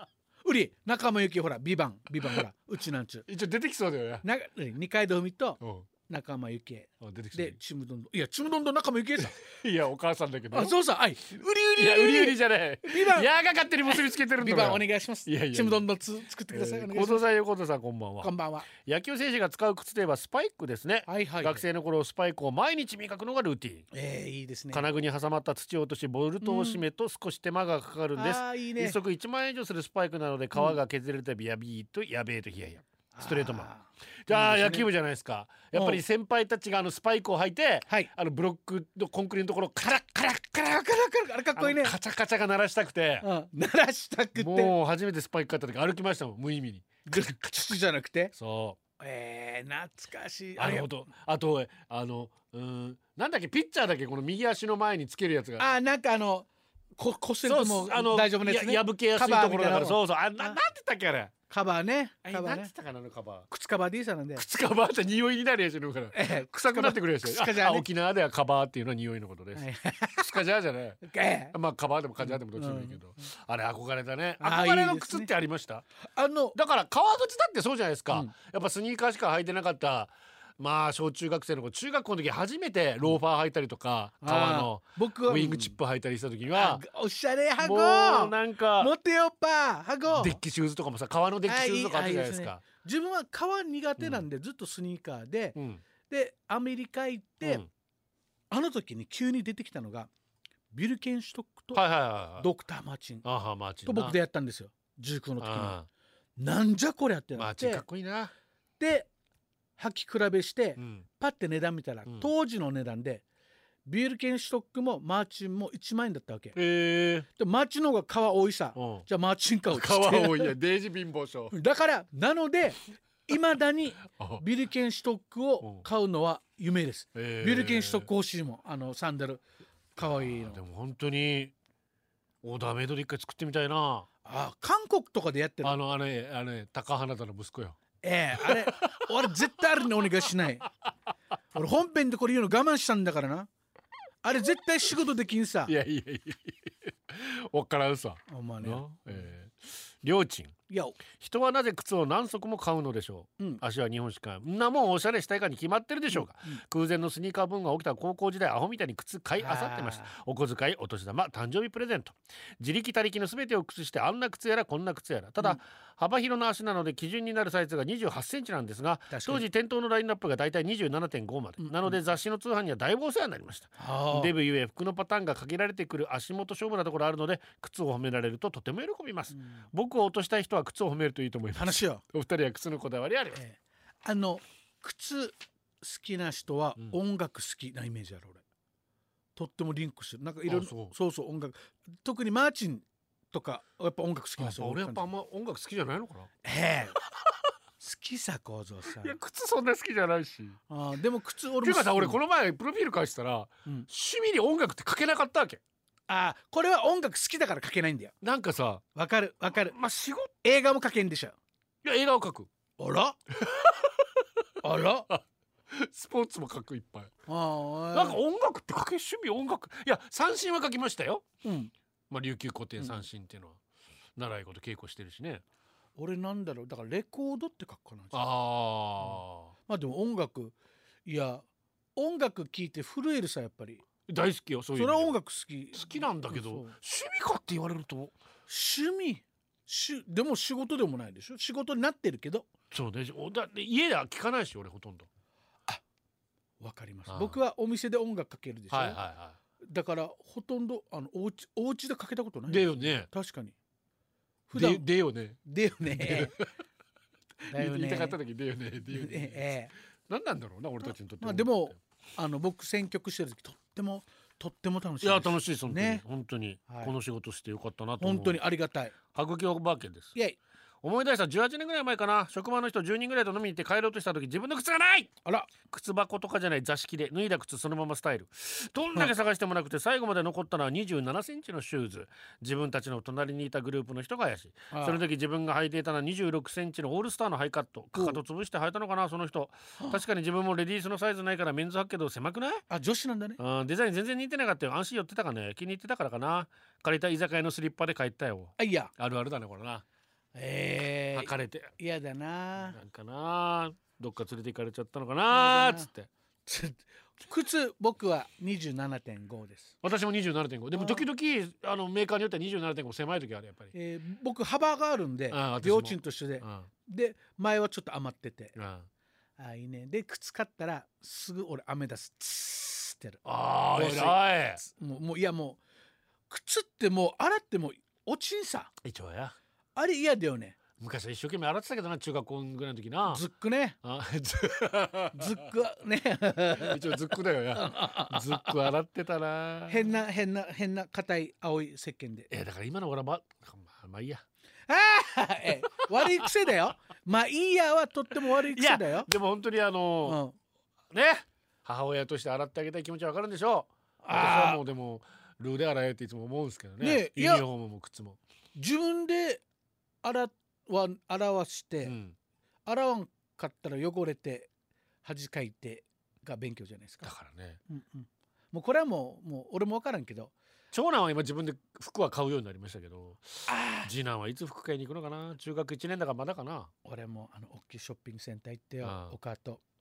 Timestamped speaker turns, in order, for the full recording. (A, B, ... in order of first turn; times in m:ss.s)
0:00.4-0:03.3 A
0:03.3-0:04.2 B
0:04.2-0:09.4 A
0:05.6-0:05.9 B
0:07.0-0:07.6 B
0:09.6-0:10.8 B
0:10.5-0:13.3 A
0:11.8-0:15.9 B
0:13.8-0:17.3 A
0:16.5-0:23.9 B
0:18.2-0:18.7 A
0:21.1-0:21.6 A
0:23.9-0:24.9 A
0:24.7-0:33.7 B
0:26.4-0:26.9 A
0:28.2-0:29.0 A
0:33.1-0:34.9 A
0:34.3-0:40.9 B
0:35.7-0:36.0 A
0:40.8-0:42.0 A
0:41.6-0:43.3 B
0:43.2-0:44.7 A
0:44.4-0:47.3 B
0:47.1-0:48.3 A
0:48.4-0:48.8 B
0:49.0-0:50.9 A
0:50.6-0:55.7 B
0:55.6-1:00.6 A
0:57.4-1:01.3 B
1:01.5-1:02.7 A
1:02.3-1:03.5 B
1:03.5-1:04.4 A
1:04.4-1:15.8 B
1:06.1-1:07.9 A
1:09.6-1:10.4 A
1:11.0-1:11.6 A
1:12.2-1:13.0 A
1:14.4-1:15.3 A
1:16.1-1:16.6 A
1:16.6-1:26.8 B
1:24.2-1:25.8 A
1:26.5-1:30.4 A
1:27.6-1:28.9 B
1:30.1-1:32.6 B
1:31.5-1:35.6 A
1:34.0-1:34.2 B
1:35.6-1:35.8 B
1:36.1-1:37.6 A
1:38.5-1:40.1 A
1:40.7-1:41.8 A
1:41.7-1:42.5 B
1:42.4-1:43.3 A
1:43.2-1:44.2 B
1:43.8-1:45.8 A
1:45.4-1:45.9 B
1:46.4-1:47.8 A
1:47.4-1:48.3 B
1:48.8-1:49.1 A
1:49.8-1:53.2 A
1:50.8-1:51.1 B
1:53.9-1:56.6 A
1:56.6-1:57.3 B
1:57.4-2:00.6 A
1:58.8-1:59.0 B
1:59.7-2:01.5 B
2:01.5-2:09.4 A
2:04.1-2:04.4 B
2:07.2-2:08.1 B
2:10.0-2:10.6 A
2:10.0-2:11.5 B
2:12.4-2:14.1 B
2:14.2-2:15.8 A
2:15.6-2:17.8 B
2:18.0-2:20.7 A
2:18.4-2:19.1 B
2:21.5-2:23.5 A
2:24.2-2:25.7 A
2:25.7-2:30.6 B
2:28.3-2:29.2 A
2:30.7-2:31.0 A
2:31.2-3:03.4 B
2:36.1-2:36.6 A
2:39.4-2:40.1 A
2:49.1-2:49.4 A
2:51.6-2:52.0 A
2:53.8-2:54.3 A
3:01.6-3:02.0 A
3:03.4-3:08.4 A
3:09.4-3:15.1 A
3:10.5-3:10.9 B
3:14.4-3:16.3 B
3:16.4-3:17.0 A
3:17.8-3:19.2 A
3:18.9-3:20.6 B
3:20.7-3:22.2 A
3:21.6-3:25.6 B
3:26.1-3:28.2 A
3:28.2-3:28.8 B
3:29.0-3:29.8 A
3:29.6-3:30.3 B
3:30.4-3:31.4 A
3:31.8-3:32.5 B
3:32.8-3:33.2 A
3:33.4-3:34.1 B
3:34.6-3:35.1 A
3:35.1-3:37.1 B
3:37.3-3:38.2 A
3:37.9-3:41.3 B
3:41.4-3:41.7 A
3:42.1-3:43.6 B
3:44.2-3:45.4 B
3:46.0-3:48.3 A
3:48.1-3:49.5 B
3:49.0-3:50.6 A
3:51.1-3:51.4 A
3:52.0-3:53.8 A
3:54.1-3:55.1 B
3:54.8-3:56.8 A
3:55.8-3:58.2 B
3:58.5-4:02.5 A
4:02.7-4:05.1 B
4:06.6-4:09.0 A
4:07.1-4:07.4 B
4:08.7-4:09.4 B
4:09.6-4:13.6 A
4:12.5-4:13.1 B
4:14.5-4:14.9 A
4:14.6-4:16.5 B
4:15.4-4:16.4 A
4:17.5-4:19.5 B
4:17.5-4:18.2 A
4:18.9-4:19.7 A
4:20.1-4:21.8 B
4:20.8-4:26.0 A
4:25.0-4:28.4 B
4:26.7-4:27.0 A
4:28.0-4:29.0 A
4:29.1-4:30.1 B
4:30.8-4:35.1 B
4:35.7-4:52.6 B
4:44.7-4:45.0 A
4:48.0-4:48.2 A
4:52.7-4:53.4 A
4:53.4-4:59.8 B
4:58.6-4:58.9 A
5:00.4-5:02.8 A
5:01.2-5:01.7 B
5:02.6-5:06.1 B
5:05.3-5:05.9 A
5:06.5-5:09.8 A
5:09.8-5:13.7 B
5:10.8-5:11.0 A
5:13.7-5:18.6 A
5:15.3-5:16.7 B
5:18.6-5:18.9 B
5:19.4-5:23.2 A
5:23.2-5:24.6 B
5:23.8-5:25.6 A
5:26.3-5:28.7 A
5:28.8-5:29.4 B
5:29.8-5:30.6 A
5:30.8-5:33.2 B
5:33.1-5:33.8 A
5:33.8-5:35.4 B
5:35.1-5:38.7 A
5:36.6-5:39.9 B
5:39.7-5:42.3 A
5:42.3-5:44.2 B
5:44.7-5:49.1 A
5:45.8-5:46.1 B
5:48.3-5:50.2 B
5:50.0-5:50.4 A
5:50.9-5:58.2 B
5:54.0-5:54.6 A
5:56.8-5:57.4 A
5:58.6-5:59.4 A
6:00.0-6:02.0 A
6:01.8-6:02.2 B
6:02.7-6:04.5 A
6:05.0-6:07.1 A
6:07.0-6:07.6 B
6:07.7-6:10.3 A
6:10.7-6:16.7 B
6:13.5-6:13.9 A
6:16.8-6:19.6 A
6:18.8-6:19.2 B